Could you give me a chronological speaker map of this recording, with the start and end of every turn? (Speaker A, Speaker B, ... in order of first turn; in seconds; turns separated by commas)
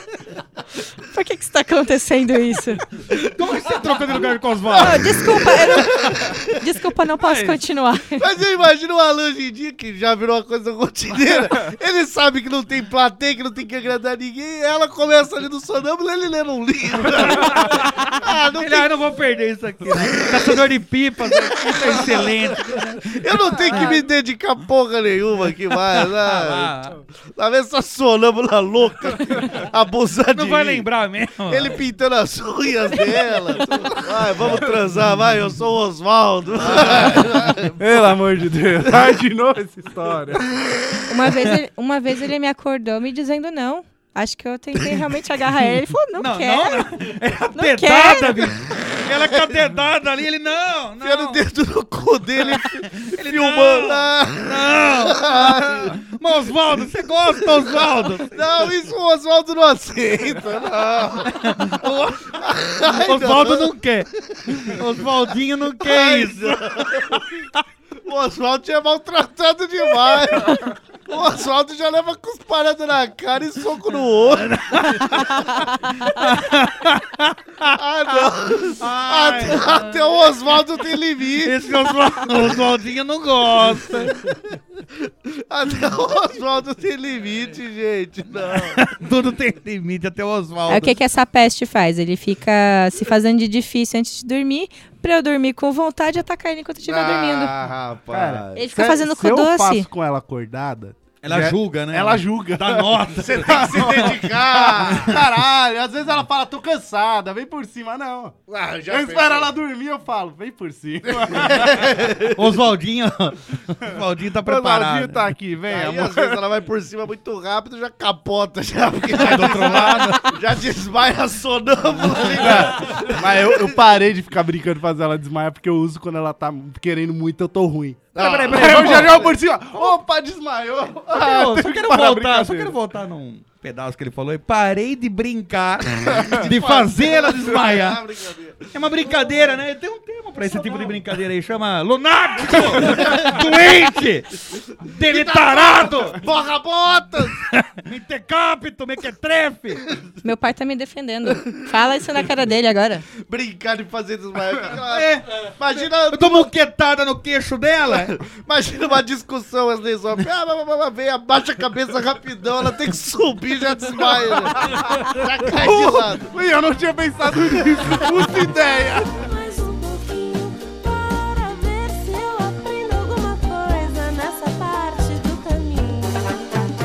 Speaker A: 1.1-2.8, Speaker B: 3.1-5.2, Speaker A: 4.7-8.2, Speaker C: 5.7-6.4, Speaker C: 8.2-18.9, Speaker B: 17.2-17.8, Speaker B: 18.5-23.9, Speaker C: 20.2-20.5, Speaker C: 21.4-22.4, Speaker C: 23.1-26.7, Speaker B: 25.9-27.0, Speaker C: 27.4-30.9, Speaker B: 30.3-31.8, Speaker C: 31.4-38.1, Speaker D: 37.8-40.5, Speaker A: 41.1-46.9, Speaker B: 46.1-51.4, Speaker A: 47.5-48.5, Speaker C: 51.0-56.0, Speaker B: 52.5-58.4, Speaker C: 58.2-63.7, Speaker B: 61.3-62.2, Speaker B: 62.9-67.2, Speaker C: 65.8-67.2, Speaker C: 68.0-75.0, Speaker B: 74.3-75.4, Speaker B: 76.0-78.2, Speaker C: 77.7-81.6, Speaker B: 78.8-80.0, Speaker B: 81.4-84.2, Speaker C: 85.0-88.8, Speaker B: 88.6-91.0, Speaker A: 90.7-97.5, Speaker C: 96.8-98.7, Speaker D: 98.1-104.2, Speaker A: 98.5-99.9, Speaker B: 101.2-105.2, Speaker C: 103.1-106.2, Speaker D: 104.9-111.8, Speaker C: 108.5-109.5, Speaker C: 111.2-112.5, Speaker B: 112.3-115.3, Speaker D: 114.4-116.4, Speaker C: 115.7-123.6, Speaker B: 119.2-120.2, Speaker D: 119.3-120.2, Speaker D: 122.4-132.8, Speaker C: 128.1-129.8, Speaker B: 128.2-129.3, Speaker B: 131.1-138.0, Speaker C: 136.3-139.1, Speaker B: 138.7-146.2, Speaker C: 142.5-143.4, Speaker C: 145.0-147.4, Speaker B: 147.7-149.8, Speaker A: 150.2-153.0, Speaker C: 153.2-156.5, Speaker B: 154.8-155.4, Speaker B: 156.1-158.2, Speaker C: 157.9-166.3, Speaker D: 165.4-168.8, Speaker C: 167.8-169.1, Speaker E: 168.4-176.3